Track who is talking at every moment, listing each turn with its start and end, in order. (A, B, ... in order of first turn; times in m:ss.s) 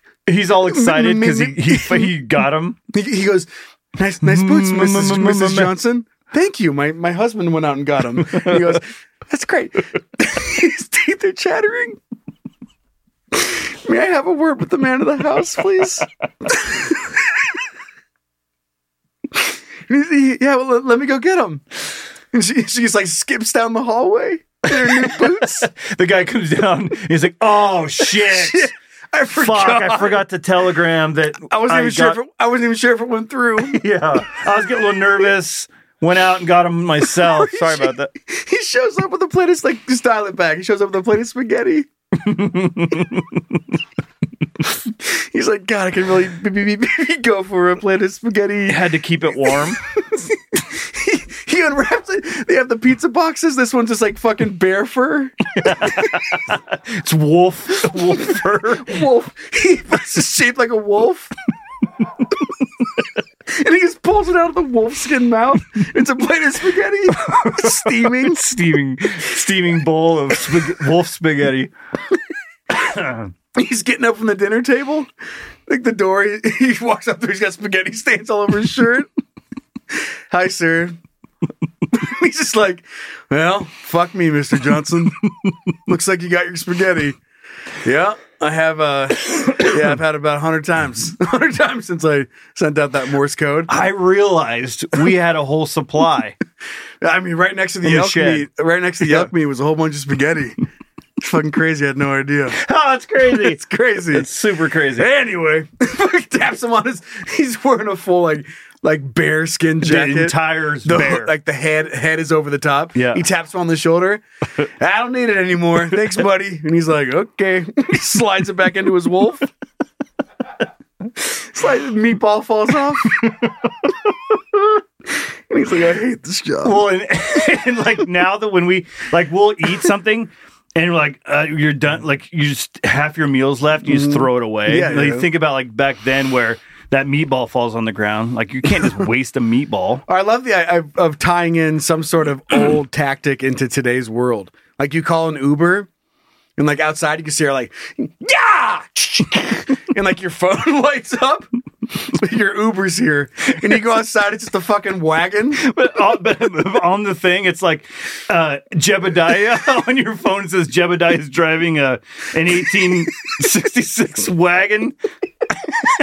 0:00.3-0:02.8 A
0:00.6-0:02.2 B
0:02.9-0:12.0 B
0:04.2-0:05.8 A
0:13.3-0:17.1 B
0:19.4-0:25.7 B
0:24.7-0:28.7 A
0:28.0-0:30.3 B
0:29.3-0:32.2 A
0:31.4-0:33.8 B
0:33.6-0:38.1 A
0:37.1-0:41.9 B
0:42.2-0:43.4 A
0:45.0-0:48.9 B
0:48.7-0:49.8 A
0:49.6-0:56.1 B
0:55.6-0:59.0 A
0:58.8-1:01.3 B
1:03.5-1:08.4 B
1:07.3-1:11.7 A
1:12.8-1:13.3 A
1:13.5-1:15.1 B
1:15.7-1:19.1 B
1:20.3-1:21.0 B
1:21.9-1:25.2 B
1:25.9-1:27.2 B
1:27.8-1:33.7 B
1:33.7-1:36.4 A
1:37.0-1:40.6 B
1:37.8-1:38.5 A
1:39.0-1:39.3 A
1:41.2-1:42.6 B
1:42.5-1:45.1 A
1:43.2-1:44.3 B
1:45.0-1:54.2 B
1:49.8-1:51.3 A
1:53.0-1:53.2 A
1:54.8-1:59.5 B
2:01.2-2:03.2 B
2:03.2-2:03.4 A
2:05.5-2:06.9 B
2:06.6-2:20.0 A
2:13.8-2:15.3 B
2:20.1-2:25.9 B
2:26.6-2:31.5 B
2:32.0-2:35.6 B
2:35.6-2:45.0 A